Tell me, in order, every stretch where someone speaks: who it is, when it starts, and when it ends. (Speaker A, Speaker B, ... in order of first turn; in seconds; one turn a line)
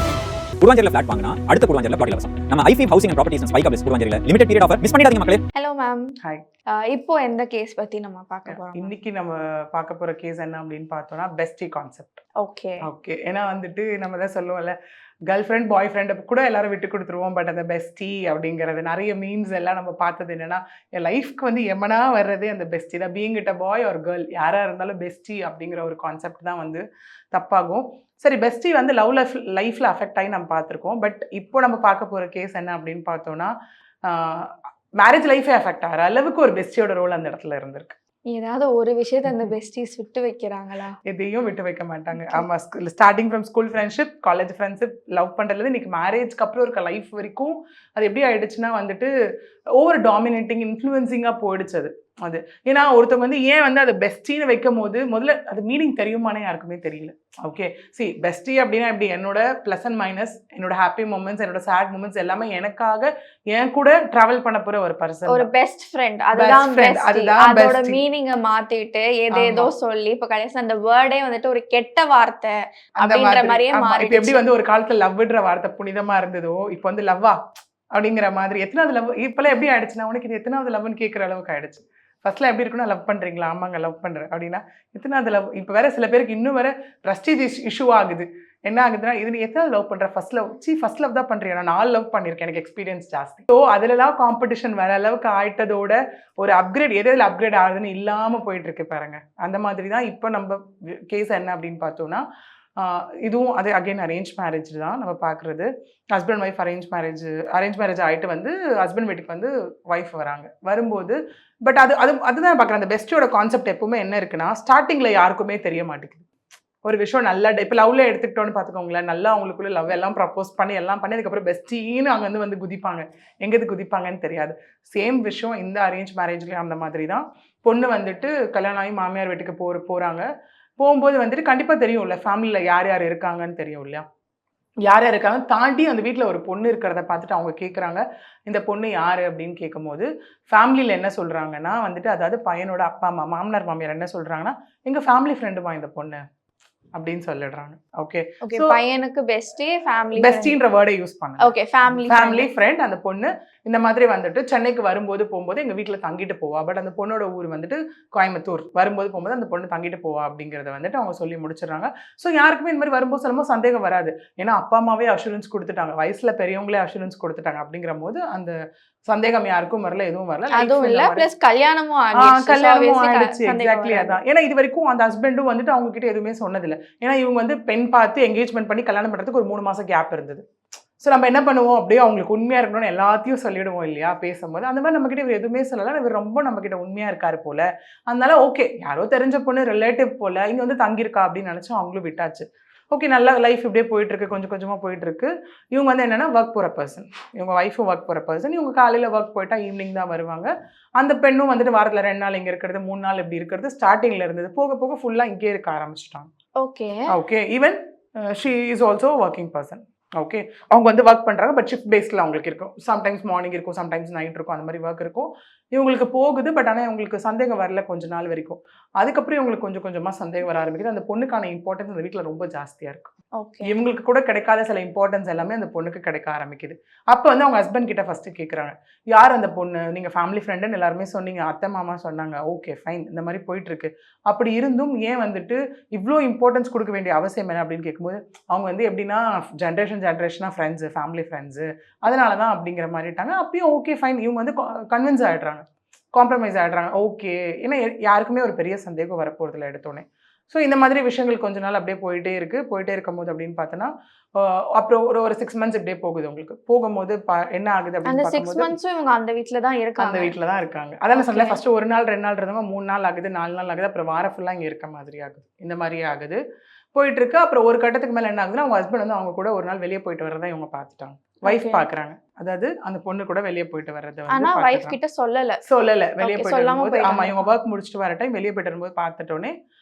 Speaker A: 0.6-5.4
Speaker B: 5.5-6.1
Speaker B: 6.7-8.9
Speaker C: 8.5-12.2
Speaker B: 12.4-12.8
Speaker C: 12.8-14.7
Speaker C: 15.3-33.5
Speaker C: 34.0-38.0
Speaker B: 38.3-41.0
Speaker C: 41.0-49.1
Speaker B: 42.1-42.4
Speaker C: 49.8-65.5
Speaker B: 65.3-74.4
Speaker C: 66.3-68.0
Speaker C: 69.3-69.7
Speaker C: 73.0-77.4
Speaker C: 77.9-102.2
Speaker C: 102.8-116.2
Speaker C: 116.8-130.2
Speaker C: 130.8-134.0
Speaker C: 134.8-146.2
Speaker C: 146.9-148.7
Speaker B: 148.4-150.5
Speaker C: 150.1-168.5
Speaker B: 151.4-152.5
Speaker C: 169.1-171.2
Speaker B: 170.5-174.2
Speaker C: 172.2-180.4
Speaker C: 181.0-206.3
Speaker B: 206.6-207.0
Speaker C: 207.1-223.1
Speaker B: 223.4-223.7
Speaker C: 223.6-258.7
Speaker B: 258.1-260.3
Speaker C: 260.0-266.4
Speaker B: 261.1-261.6
Speaker C: 266.9-274.9
Speaker B: 271.5-271.8
Speaker B: 274.3-275.6
Speaker C: 275.6-279.5
Speaker B: 276.2-277.5